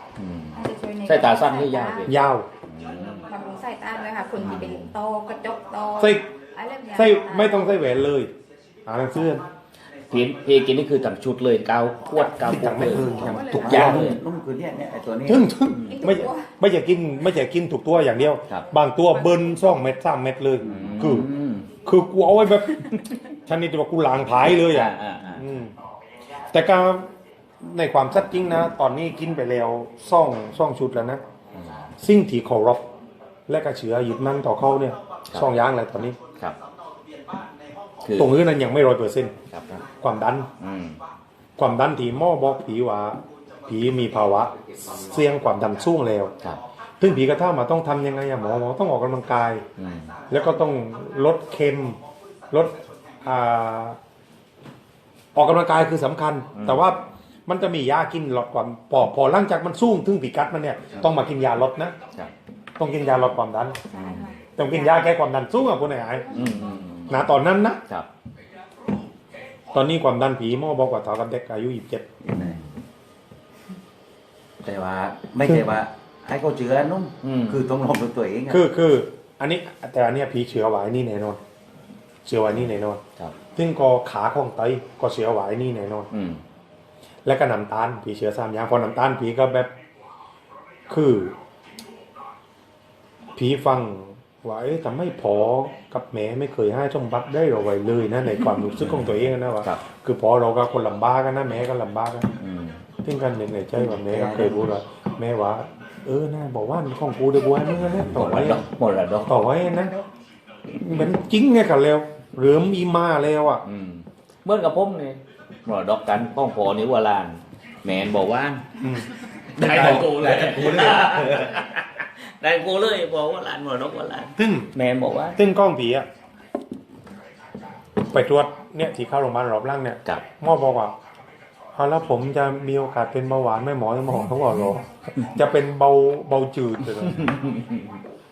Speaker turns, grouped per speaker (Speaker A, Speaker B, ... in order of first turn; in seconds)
Speaker A: 0.2-2.1, 2.7-3.3, 4.4-4.9, 10.1-14.2, 15.7-16.1, 20.6-21.7, 24.7-25.6, 31.5-31.9, 38.0-38.3, 39.5-39.8, 40.6-41.0, 49.8-50.1, 56.5-56.9, 63.9-64.3, 66.3-67.3, 77.2-77.7, 86.1-86.4, 98.9-99.8, 102.4-102.8, 108.1-109.3, 113.6-118.7, 119.4-125.4, 136.8-138.0
Speaker B: 0.5-2.1, 3.2-7.7, 12.1-13.9, 15.9-16.5, 19.1-19.8, 63.9-65.1, 66.1-66.6, 109.7-110.1
Speaker C: 2.0-2.5, 6.0-6.3, 6.9-8.3, 8.9-9.4, 12.4-14.1, 15.3-21.3, 21.8-22.9, 23.5-25.7, 26.5-27.1, 27.6-31.2, 32.0-32.9, 33.5-36.2, 38.1-39.4, 40.0-40.5, 41.6-46.3, 47.0-49.6, 50.3-52.0, 52.5-54.0, 55.3-61.9, 62.8-63.8, 64.6-66.3, 67.1-67.8, 69.7-72.1, 75.5-75.7, 78.5-81.4, 82.2-83.0, 83.5-86.1, 87.2-89.7, 90.9-91.3, 93.4-102.3, 103.0-108.6, 109.3-110.0, 110.7-113.6, 118.8-119.1, 124.4-124.7, 125.4-126.1, 128.1-130.9, 131.8-137.3
Speaker D: 4.5-4.8, 13.1-15.5, 20.6-20.9, 72.2-72.6, 74.6-78.6, 103.8-104.7, 119.6-121.5